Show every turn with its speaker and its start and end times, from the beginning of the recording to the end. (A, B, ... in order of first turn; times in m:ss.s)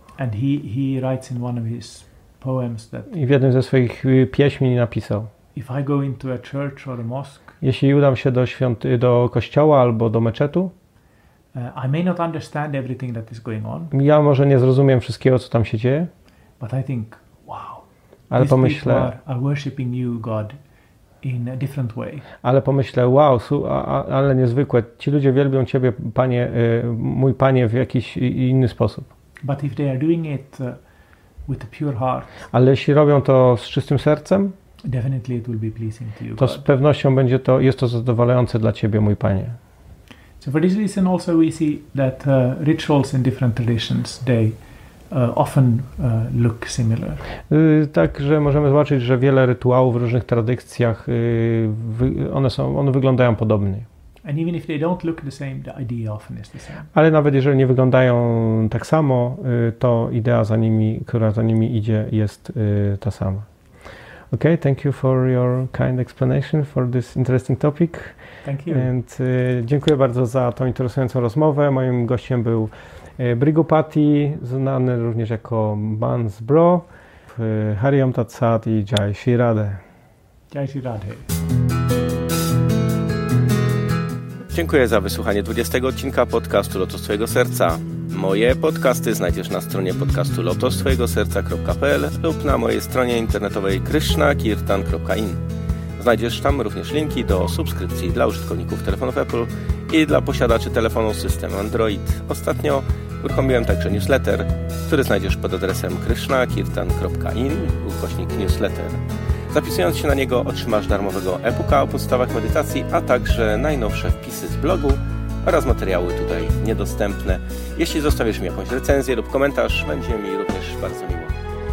0:00.2-0:03.1 A
0:03.1-0:05.3 B
0:05.5-0:07.6 A
0:07.6-0:10.7 B
0:11.5-0:13.9 A
0:13.9-0:16.1 B
0:16.6-0:17.8 A
0:18.3-0:19.1 B
0:18.4-0:20.6 A
0:21.2-0:22.3 A
0:22.4-0:29.1 B
0:29.4-0:30.8 A
0:31.5-0:32.3 A
0:32.5-0:34.5 B
0:34.8-0:36.6 A
0:36.4-0:39.6 B
0:40.4-0:44.6 A
0:45.1-0:47.2 A
0:47.5-0:53.9 B
0:54.2-0:56.9 A
0:56.9-1:03.5 B
1:04.3-1:08.2 B
1:08.4-1:08.9 A
1:08.7-1:19.8 B
1:20.5-1:21.3 A
1:24.5-1:35.4 C
1:36.0-2:01.3 C